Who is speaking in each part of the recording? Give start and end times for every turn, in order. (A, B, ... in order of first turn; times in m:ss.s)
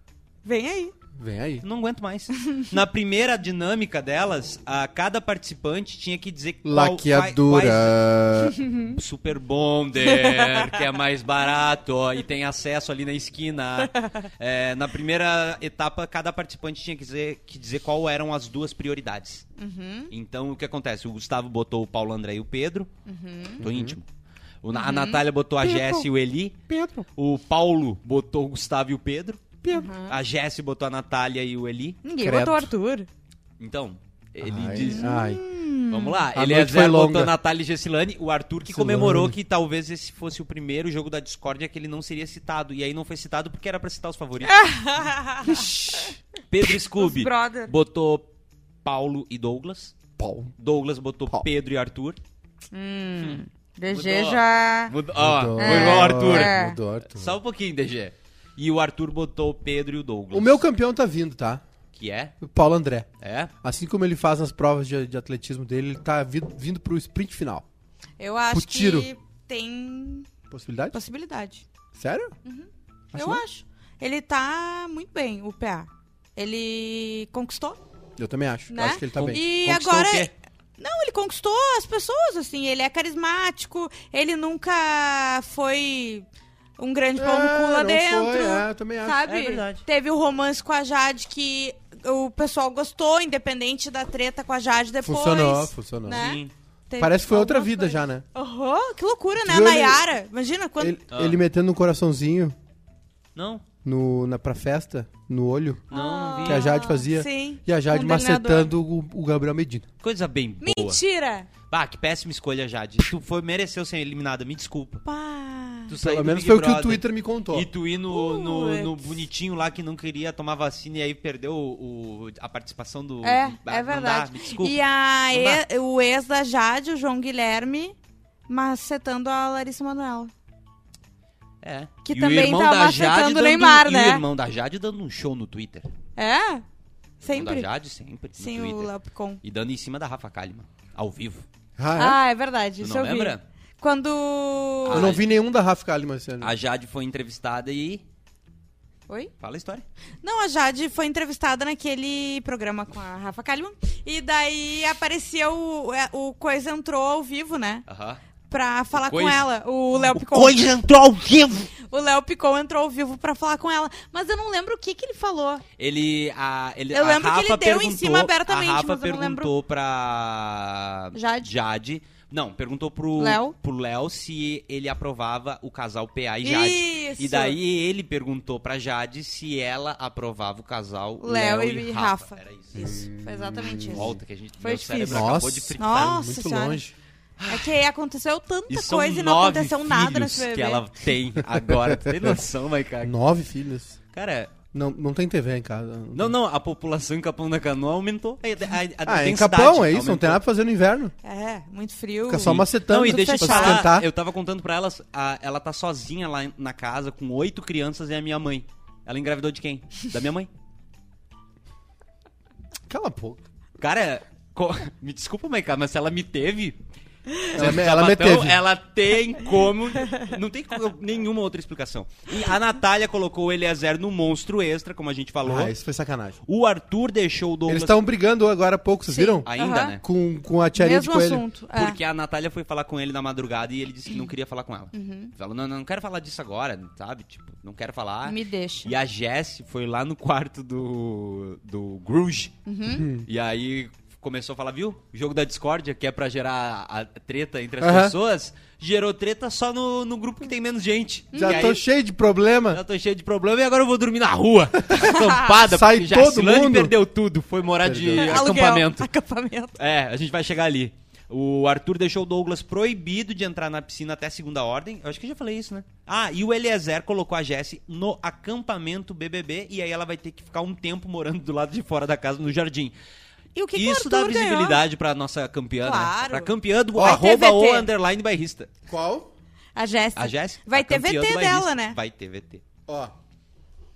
0:00.4-0:00.9 A
0:01.2-0:01.6 B
0:01.6-0:08.0 C
0:06.6-0:08.6 B
0:08.9-0:19.4 C
0:10.1-0:10.7 A
0:13.8-0:14.2 A
0:19.6-0:20.1 A
0:20.1-0:22.9 C
0:23.1-0:23.6 A
0:23.6-0:24.0 B
0:23.6-0:24.1 C
0:24.6-0:26.6 C
0:24.7-0:25.2 A
0:25.6-0:26.1 B
0:26.7-0:27.1 B
0:27.2-0:32.0 C
0:29.6-0:29.9 B
0:29.7-0:30.2 A
0:32.0-0:33.1 A
0:32.2-0:32.7 B
0:33.6-0:35.2 C
0:34.4-0:35.4 B
0:34.8-0:36.2 A
0:35.9-0:44.6 C
0:36.3-0:37.3 B
0:38.7-0:39.4 B
0:44.5-0:45.7 A
0:45.5-0:46.1 B
0:46.5-0:48.3 C
0:47.0-0:47.7 A
0:48.8-0:50.0 C
0:50.2-0:50.5 B
0:50.6-0:52.2 C
0:52.7-0:54.9 A
0:53.9-0:56.5 C
0:55.2-0:57.4 B
0:55.6-0:56.8 A
0:57.1-1:00.6 C
1:00.3-1:01.6 B
1:02.0-1:02.4 C
1:02.4-1:03.1 B
1:03.2-1:03.5 C
1:03.6-1:07.6 B
1:08.2-1:10.3 A
1:08.5-1:09.1 B
1:10.5-1:11.0 B
1:10.9-1:11.6 A
1:11.9-1:12.3 B
1:12.4-1:17.8 A
1:13.1-1:13.4 B
1:18.2-1:19.4 B
1:18.7-1:26.3 A
1:19.2-1:20.3 C
1:26.8-1:41.0 A
1:27.2-1:29.2 B
1:29.3-1:29.8 C
1:35.0-1:36.2 B
1:36.1-1:36.5 C
1:37.0-1:38.2 B
1:39.4-1:40.0 B
1:40.8-1:42.6 B
1:41.1-1:41.4 C
1:43.4-1:43.6 C
1:43.8-1:45.9 B
1:45.9-1:46.7 C
1:45.9-1:48.7 A
1:46.4-1:49.9 B
1:50.0-1:51.0 C
1:50.6-1:51.5 A
1:51.7-1:55.0 C
1:55.0-1:55.9 A
1:55.9-2:04.8 C
1:56.0-1:57.7 B
1:58.1-1:59.2 A
2:03.2-2:08.0 A
2:05.3-2:05.6 C
2:08.5-2:10.3 A
2:11.6-2:15.9 C
2:12.0-2:14.2 A
2:16.2-2:16.6 A
2:17.2-2:17.7 A
2:17.3-2:18.9 C
2:18.4-2:19.4 A
2:19.4-2:21.4 C
2:21.8-2:22.2 B
2:22.0-2:25.1 A
2:22.8-2:23.4 C
2:24.8-2:25.2 C
2:24.9-2:26.5 B
2:26.4-2:28.0 C
2:29.4-2:29.8 C
2:30.2-2:37.8 A
2:37.9-2:38.2 C
2:38.5-2:40.7 A
2:38.9-2:41.7 C
2:41.8-2:45.6 A
2:45.8-3:03.0 C
2:46.9-2:49.5 A
2:51.1-2:51.5 A
2:53.2-2:53.6 A
2:56.4-2:57.6 A
3:01.2-3:06.8 A
3:02.8-3:04.2 B
3:03.9-3:06.2 C
3:05.0-3:07.0 B
3:07.4-3:07.7 C
3:07.5-3:10.8 A
3:08.7-3:13.1 C
3:11.7-3:12.4 B
3:13.0-3:14.0 B
3:14.1-3:14.5 C
3:14.7-3:16.4 B
3:16.1-3:20.4 C
3:19.0-3:21.2 B
3:21.2-3:23.9 A
3:22.3-3:24.1 B
3:22.4-3:30.5 C
3:32.9-3:33.4 B
3:33.8-3:36.8 C
3:37.4-3:45.7 C
3:37.5-3:38.6 B
3:45.4-3:46.4 B
3:46.5-3:48.0 C
3:47.7-3:51.4 B
3:49.1-3:50.0 A
3:49.5-3:50.0 C
3:50.8-3:52.0 A
3:51.7-4:02.6 C
3:54.9-3:55.3 A
3:58.2-3:58.9 A
4:02.7-4:03.1 A
4:02.9-4:03.3 B
4:03.3-4:11.8 C
4:07.8-4:08.2 B
4:11.3-4:11.7 A
4:11.4-4:12.8 B
4:12.7-4:19.1 C
4:14.9-4:17.0 B
4:15.0-4:15.3 A
4:17.8-4:18.4 B
4:18.2-4:19.8 A
4:19.8-4:33.0 C
4:33.6-4:34.8 A
4:33.8-4:38.7 C
4:35.8-4:37.9 A
4:37.0-4:37.2 B
4:38.9-4:39.3 B
4:39.8-4:42.0 A
4:40.2-4:42.6 C
4:42.9-4:43.1 B